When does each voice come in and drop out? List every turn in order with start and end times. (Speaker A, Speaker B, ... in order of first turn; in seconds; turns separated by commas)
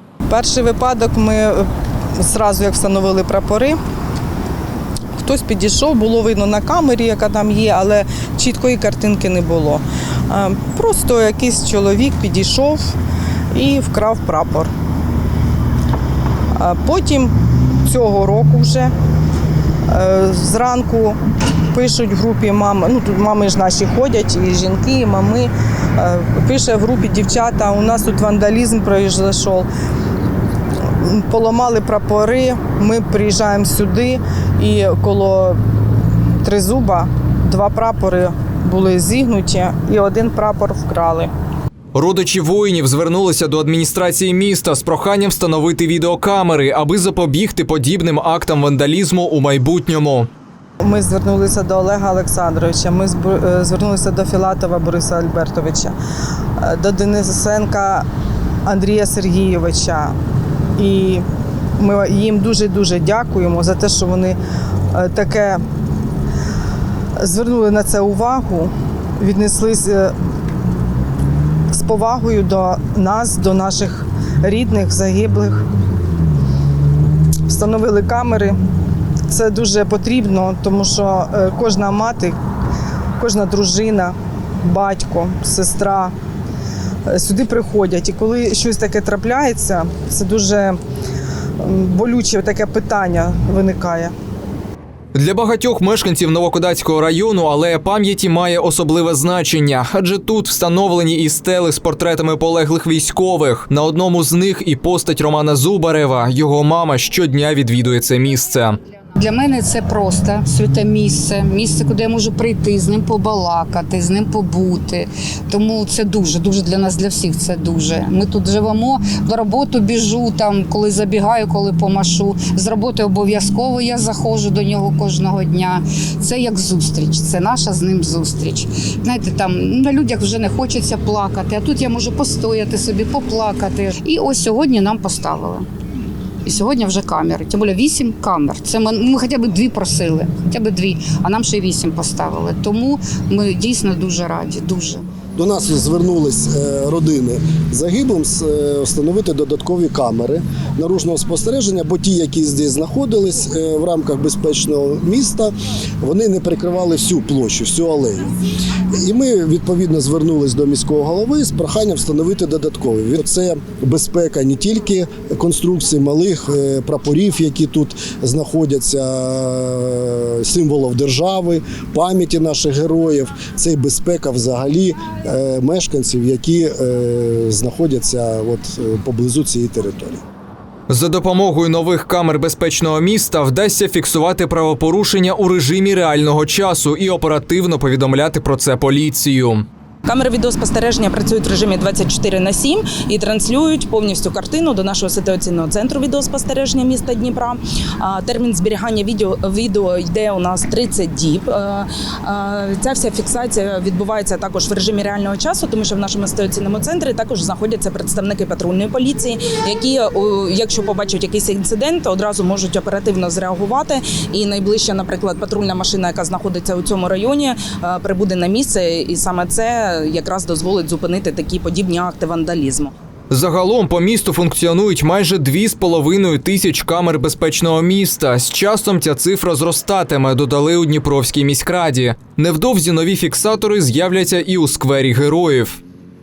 Speaker A: 0.3-1.6, Speaker A: 2.2-3.8, Speaker A: 5.2-12.8, Speaker A: 13.5-14.7, Speaker A: 16.6-17.3, Speaker A: 17.8-18.9, Speaker A: 19.9-21.2, Speaker A: 21.7-29.7, Speaker A: 31.0-35.6, Speaker A: 36.4-41.3, Speaker B: 41.9-50.3, Speaker A: 50.8-55.9, Speaker A: 56.6-58.0, Speaker A: 58.6-60.1, Speaker A: 60.8-61.2, Speaker A: 61.8-64.4, Speaker A: 64.9-65.6, Speaker A: 67.2-70.1, Speaker A: 71.7-75.6, Speaker A: 77.5-78.5, Speaker A: 79.3-82.3, Speaker A: 83.2-86.1, Speaker A: 87.1-90.8, Speaker A: 91.6-94.1, Speaker B: 95.1-108.8, Speaker C: 109.2-135.7, Speaker C: 136.4-145.0, Speaker D: 145.3-158.3, Speaker D: 158.9-180.2, Speaker B: 180.9-189.7, Speaker E: 190.1-222.9, Speaker B: 223.3-235.8